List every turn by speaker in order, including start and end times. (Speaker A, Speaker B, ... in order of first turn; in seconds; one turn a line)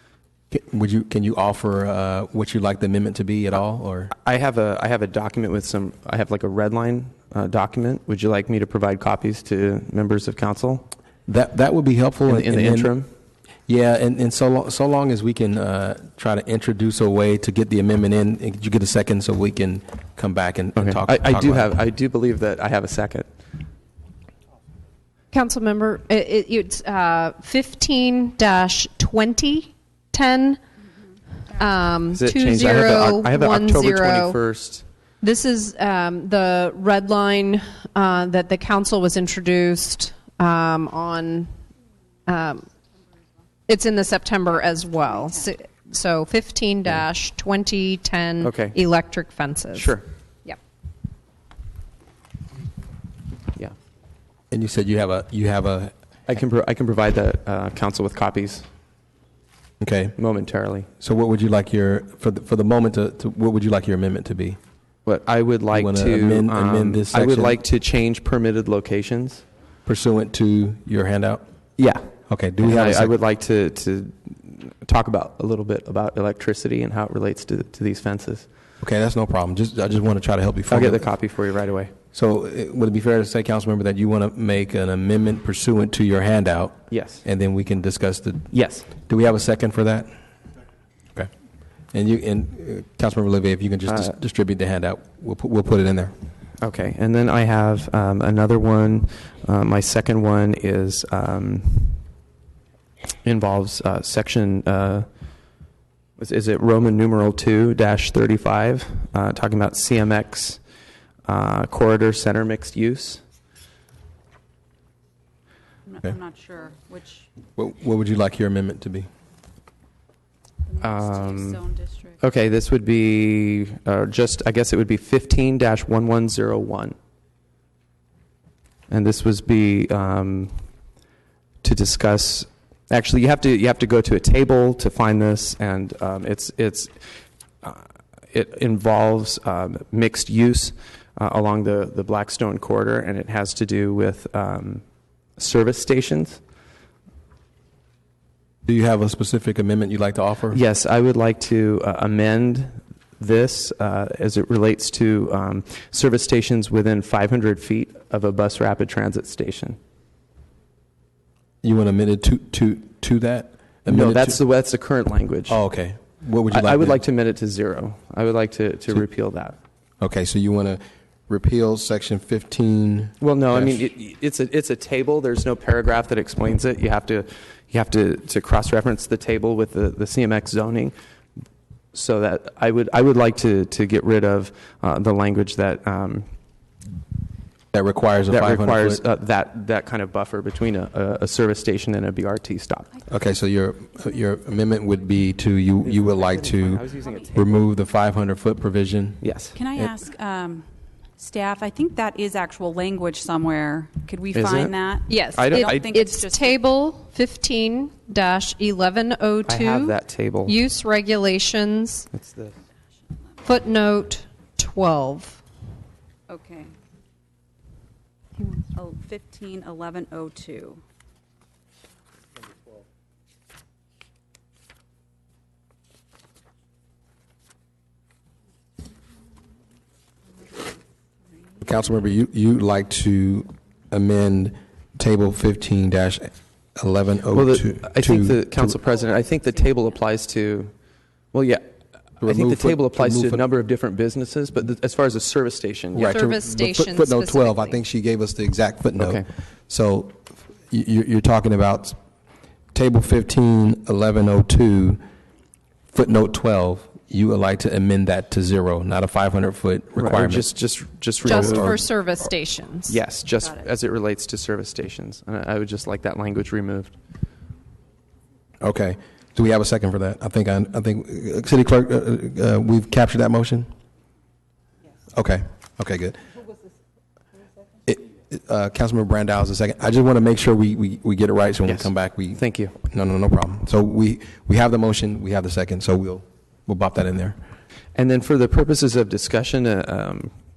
Speaker A: 0.5-4.1
Speaker B: 4.1-10.9
Speaker A: 11.3-12.9
Speaker B: 12.2-13.1
Speaker A: 13.7-21.8
Speaker B: 20.8-23.3
Speaker C: 25.3-30.6
Speaker C: 31.5-34.4
Speaker B: 32.1-34.9
Speaker C: 35.2-41.5
Speaker C: 42.2-42.7
Speaker C: 43.7-50.6
Speaker D: 45.0-45.4
Speaker B: 48.4-48.8
Speaker B: 49.7-50.0
Speaker A: 54.5-55.9
Speaker B: 56.3-58.7
Speaker A: 59.8-60.1
Speaker B: 60.1-60.9
Speaker A: 61.0-64.6
Speaker B: 65.0-69.4
Speaker A: 65.7-67.6
Speaker A: 69.8-71.4
Speaker B: 71.8-72.1
Speaker A: 72.3-73.1
Speaker B: 72.6-78.5
Speaker A: 78.8-81.1
Speaker B: 80.7-81.9
Speaker A: 82.1-90.1
Speaker B: 86.9-87.2
Speaker B: 88.5-88.9
Speaker A: 91.9-96.1
Speaker B: 93.9-94.1
Speaker B: 96.6-102.0
Speaker B: 103.2-105.1
Speaker B: 106.2-110.6
Speaker B: 111.2-113.2
Speaker D: 115.8-117.3
Speaker A: 117.6-119.1
Speaker D: 120.6-122.2
Speaker B: 120.8-121.6
Speaker B: 122.2-127.0
Speaker B: 128.9-130.7
Speaker B: 131.6-137.1
Speaker B: 137.6-144.8
Speaker B: 145.4-146.4
Speaker A: 148.7-150.6
Speaker B: 150.5-159.8
Speaker A: 161.6-164.4
Speaker B: 163.9-165.6
Speaker A: 165.5-167.0
Speaker B: 166.5-169.6
Speaker A: 170.0-173.8
Speaker B: 173.2-180.9
Speaker B: 181.9-186.3
Speaker A: 187.7-189.0
Speaker B: 188.3-192.9
Speaker A: 193.1-199.2
Speaker B: 195.8-197.6
Speaker D: 196.9-197.3
Speaker B: 199.2-199.6
Speaker D: 199.5-206.6
Speaker B: 204.3-205.9
Speaker C: 205.1-212.1
Speaker B: 209.5-210.6
Speaker B: 212.1-212.5
Speaker C: 213.4-215.4
Speaker D: 216.3-216.7
Speaker D: 218.7-220.8
Speaker A: 231.6-238.8
Speaker B: 237.3-240.7
Speaker D: 238.8-239.9
Speaker B: 241.3-241.7
Speaker A: 242.2-243.4
Speaker B: 242.2-246.2
Speaker A: 245.9-251.9
Speaker C: 246.0-247.8
Speaker B: 248.9-249.2
Speaker A: 252.7-255.0
Speaker A: 255.9-260.5
Speaker B: 259.9-261.8
Speaker A: 261.2-261.8
Speaker C: 261.2-263.0
Speaker B: 262.9-266.9
Speaker A: 268.6-273.7
Speaker A: 275.1-276.2
Speaker A: 277.9-287.4
Speaker B: 281.6-282.7
Speaker B: 287.9-290.3